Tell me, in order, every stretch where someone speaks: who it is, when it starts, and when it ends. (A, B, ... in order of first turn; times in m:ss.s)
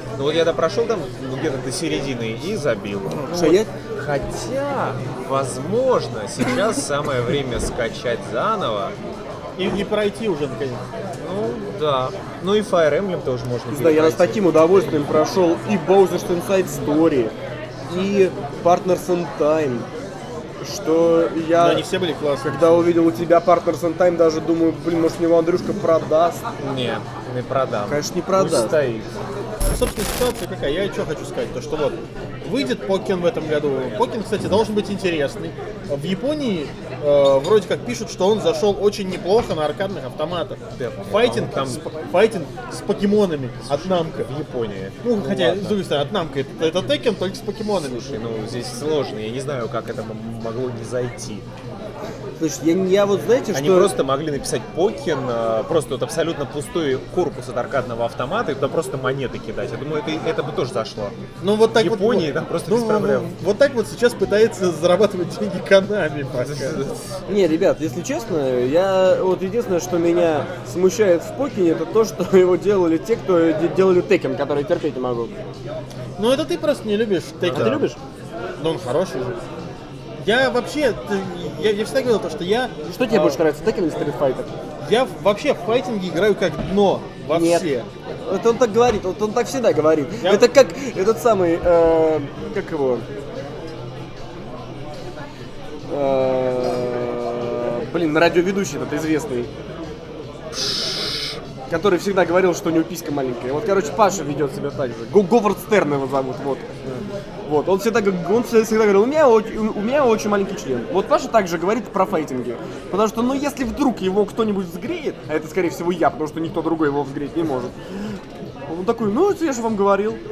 0:00.2-0:09.0 A
0:03.1-0:03.5 B
0:03.3-0:03.7 C
0:09.6-0:10.8 B
0:11.2-0:15.2 A
0:13.7-0:17.4 C
0:17.9-0:19.9 C
0:20.6-0:21.9 C
0:21.6-0:22.9 B
0:22.4-0:26.4 C
0:26.6-0:29.1 A
0:27.9-0:28.8 C
0:29.6-0:44.3 B
0:40.8-0:41.9 A
0:43.7-0:45.8 A
0:45.0-0:48.2 B
0:47.8-0:51.5 A
0:52.4-0:53.9 C
0:53.5-1:01.2 A
1:01.4-1:06.8 B
1:01.8-1:03.3 A
1:06.3-1:07.2 A
1:07.3-1:15.3 C
1:16.2-1:17.8 B
1:17.5-1:17.8 A
1:17.5-1:18.0 C
1:18.6-1:19.4 B
1:20.2-1:23.4 B
1:22.9-1:24.5 C
1:24.8-1:27.9 B
1:27.3-1:27.7 C
1:28.2-1:33.1 C
1:30.2-1:30.5 B
1:35.9-1:39.5 C
1:40.5-1:41.4 A
1:41.7-1:46.7 C
1:47.4-2:00.2 C